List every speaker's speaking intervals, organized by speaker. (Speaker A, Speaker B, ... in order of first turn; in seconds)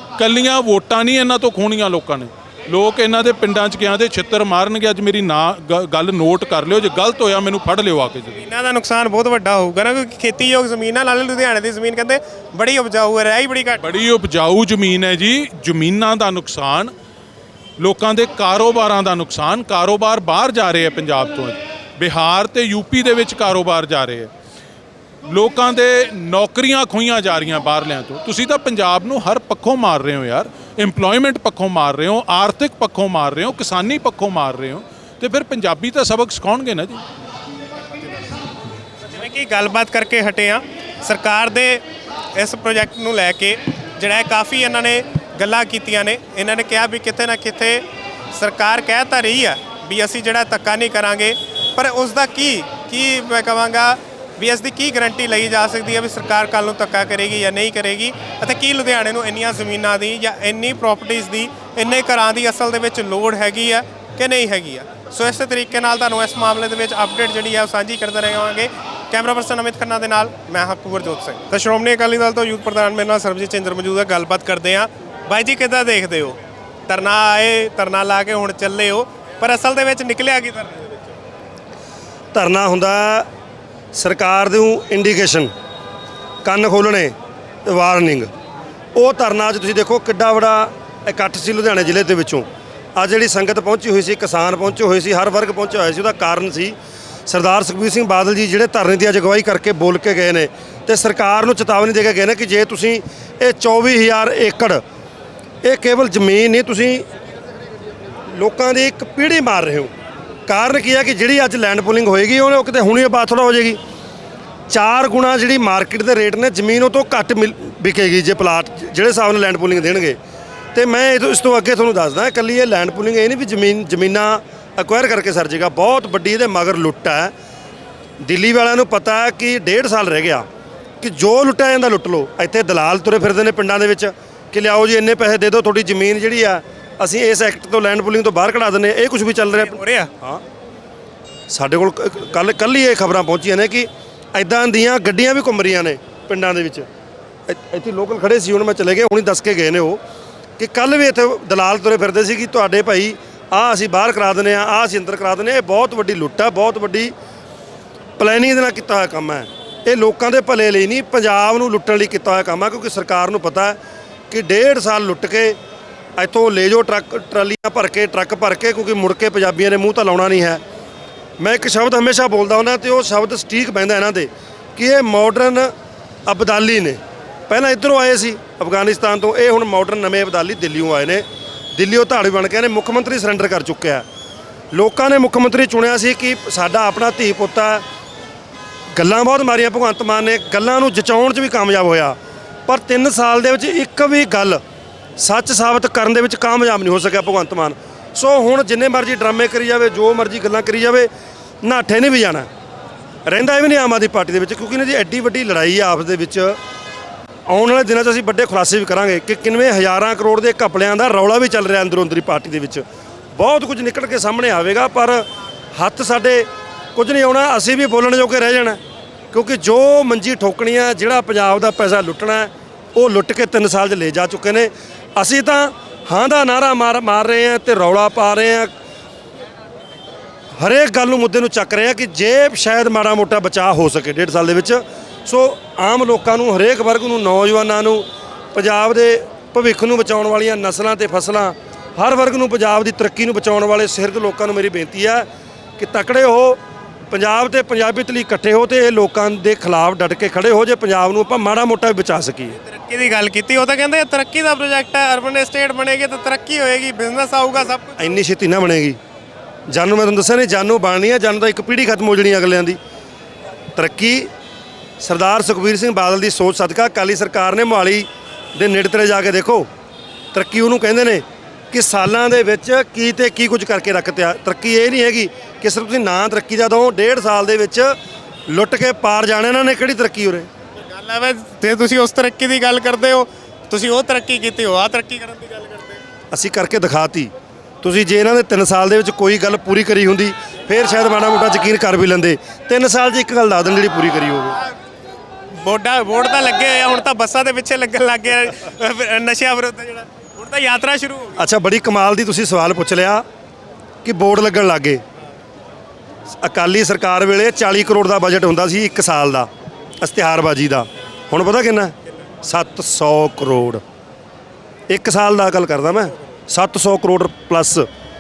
Speaker A: 0.2-8.4, 13.8-16.9, 17.8-24.3, 25.3-37.0
Speaker B: 8.4-13.8, 39.1-41.8, 42.3-81.1, 139.6-140.1, 252.6-258.0, 280.8-286.0, 295.6-301.4
Speaker C: 82.3-83.3, 83.9-85.5, 86.4-87.1, 87.7-88.3, 89.0-104.8, 105.6-107.0, 108.3-109.9, 110.5-113.8, 114.7-120.2, 120.7-127.3, 128.2-130.4, 131.0-140.4, 141.5-146.9, 147.5-150.0, 150.6-157.1, 158.2-163.8, 164.3-165.6, 166.2-170.6, 171.4-175.7, 176.3-181.2, 181.8-184.0, 184.7-187.8, 188.9-192.2, 192.7-194.6, 195.2-201.1, 201.6-202.5, 203.2-206.6, 207.5-212.8, 213.3-215.2, 215.8-218.8, 219.3-228.7, 230.6-245.2, 245.8-252.6, 258.0-259.0, 259.7-262.8, 263.8-264.3, 265.0-269.7, 270.3-277.9, 278.5-280.5, 286.3-287.3, 287.8-294.6, 301.4-303.2, 304.0-305.0, 306.4-309.5, 310.0-313.8, 314.9-317.9